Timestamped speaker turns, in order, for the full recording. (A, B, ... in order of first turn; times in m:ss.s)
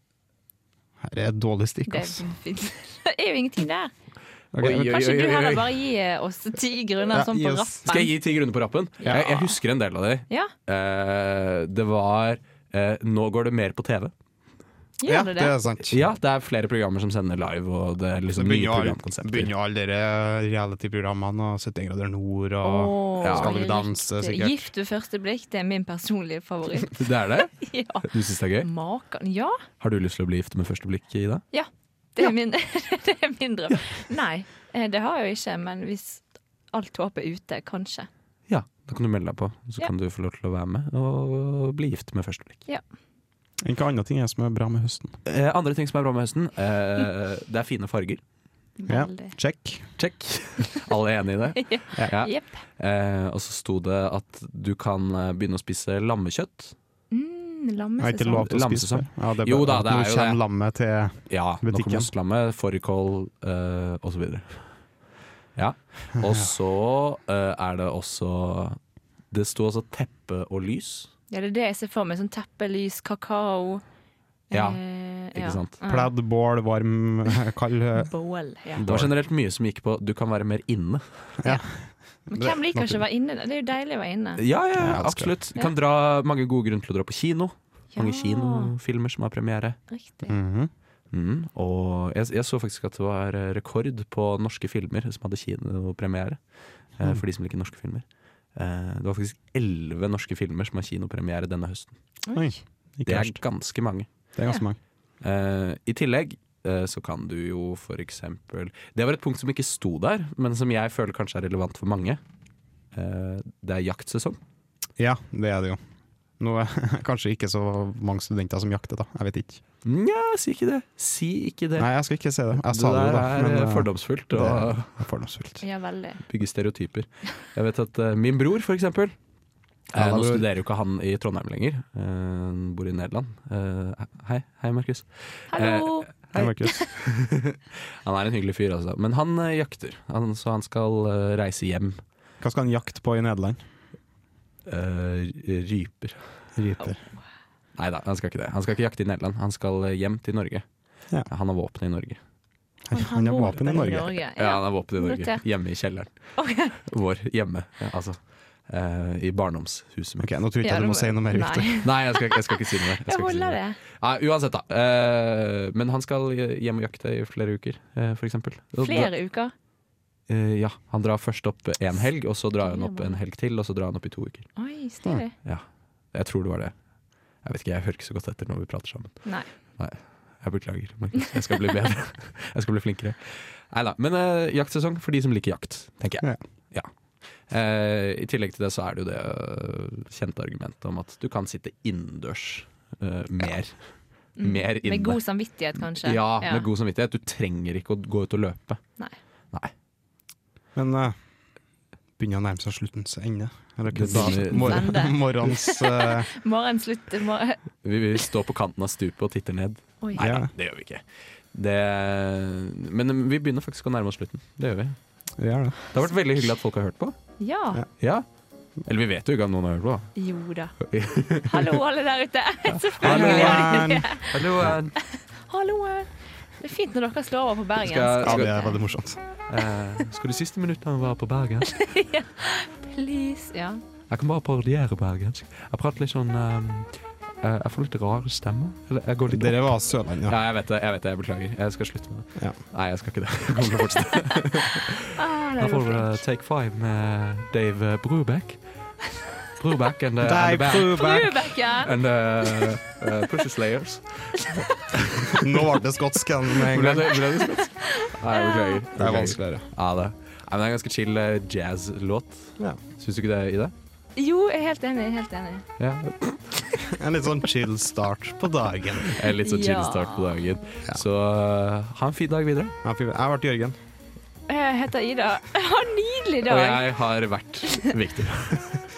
0:01.0-0:02.2 A
0:01.9-0:03.9 B
0:04.5-0:05.0 A
0:04.6-0:05.7 C
0:04.6-0:08.1 B
0:07.1-0:07.8 A
0:07.9-0:14.1 C
0:09.0-0:09.5 A
0:09.1-0:09.3 B
0:15.0-0:15.6 B
0:15.0-0:16.0 A
0:15.9-0:19.5 C
0:18.3-0:24.6 A
0:22.6-0:28.1 B
0:23.2-0:23.5 C
0:26.9-0:28.7 C
0:28.6-0:29.6 B
0:29.8-0:31.4 C
0:31.5-0:38.1 B
0:38.5-0:42.6 C
0:43.6-0:45.2 A
0:45.3-0:48.2 C
0:48.8-0:49.4 B
0:48.9-0:49.9 A
0:50.0-0:56.7 C
0:51.6-0:52.6 B
0:57.1-0:58.5 B
0:58.0-1:02.1 A
0:58.4-1:00.4 C
1:01.3-1:04.8 C
1:05.6-1:08.8 C
1:09.3-1:11.1 C
1:11.3-1:13.8 B
1:14.5-1:16.1 B
1:14.5-1:14.8 C
1:15.3-1:15.8 C
1:15.9-1:18.1 A
1:18.0-1:18.8 B
1:18.7-1:19.1 A
1:18.8-1:21.4 C
1:21.4-1:21.8 A
1:22.3-1:24.4 B
1:22.3-1:23.0 A
1:24.4-1:29.8 C
1:24.8-1:25.3 A
1:27.9-1:28.7 B
1:29.9-1:30.4 B
1:30.3-1:30.7 A
1:31.1-1:36.4 C
1:36.9-1:42.0 C
1:42.2-1:42.6 B
1:42.3-1:43.4 A
1:43.1-1:44.1 C
1:44.3-1:44.8 A
1:45.2-1:52.2 C
1:52.9-1:54.4 C
1:55.0-1:55.8 A
1:56.4-1:59.6 A
1:59.8-2:01.9 C
2:01.8-2:05.6 A
2:02.5-2:05.0 C
2:05.6-2:06.2 B
2:06.3-2:09.2 C
2:09.9-2:22.0 C
2:09.9-2:10.5 A
2:15.5-2:16.9 B
2:16.4-2:17.3 A
2:22.4-2:23.6 A
2:24.7-2:26.4 C
2:26.6-2:27.0 A
2:26.8-2:27.0 B
2:27.8-2:30.7 C
2:31.2-2:32.2 C
2:32.9-2:34.2 A
2:32.9-2:35.4 B
2:34.4-2:40.3 C
2:36.4-2:36.8 B
2:40.2-2:41.8 A
2:40.6-2:43.8 B
2:41.8-2:49.1 C
2:48.8-2:49.5 B
2:50.3-2:54.5 C
2:52.6-2:53.2 B
2:54.6-2:55.4 B
2:55.4-2:56.8 C
2:57.4-3:06.9 C
3:07.4-3:15.2 C
3:14.4-3:16.6 B
3:16.0-3:18.8 C
3:20.8-3:21.2 A
3:22.2-3:26.3 A
3:23.9-3:25.0 C
3:24.1-3:27.6 B
3:27.8-3:35.0 C
3:30.2-3:30.5 A
3:35.4-3:35.8 A
3:35.9-3:37.2 C
3:37.4-3:37.8 B
3:38.0-3:38.2 C
3:38.8-3:40.1 C
3:40.2-3:40.8 B
3:40.8-3:41.8 C
3:41.3-3:44.4 B
3:42.7-3:45.0 C
3:43.0-3:44.7 A
3:45.0-3:48.8 B
3:47.8-3:48.5 C
3:48.2-3:49.2 A
3:49.5-3:51.8 C
3:51.8-3:53.8 B
3:54.1-4:05.0 C
3:59.3-4:00.4 A
4:05.2-4:06.2 B
4:05.6-4:08.6 C
4:09.5-4:15.4 C
4:10.2-4:11.3 A
4:10.7-4:12.8 B
4:15.3-4:17.3 A
4:16.6-4:23.7 C
4:17.6-4:18.9 B
4:19.0-4:19.7 A
4:24.2-4:25.7 B
4:25.8-4:26.6 C
4:26.8-4:29.2 A
4:29.1-4:32.8 C
4:29.4-4:30.3 B
4:32.8-4:33.8 A
4:34.5-4:36.9 B
4:36.5-4:38.8 C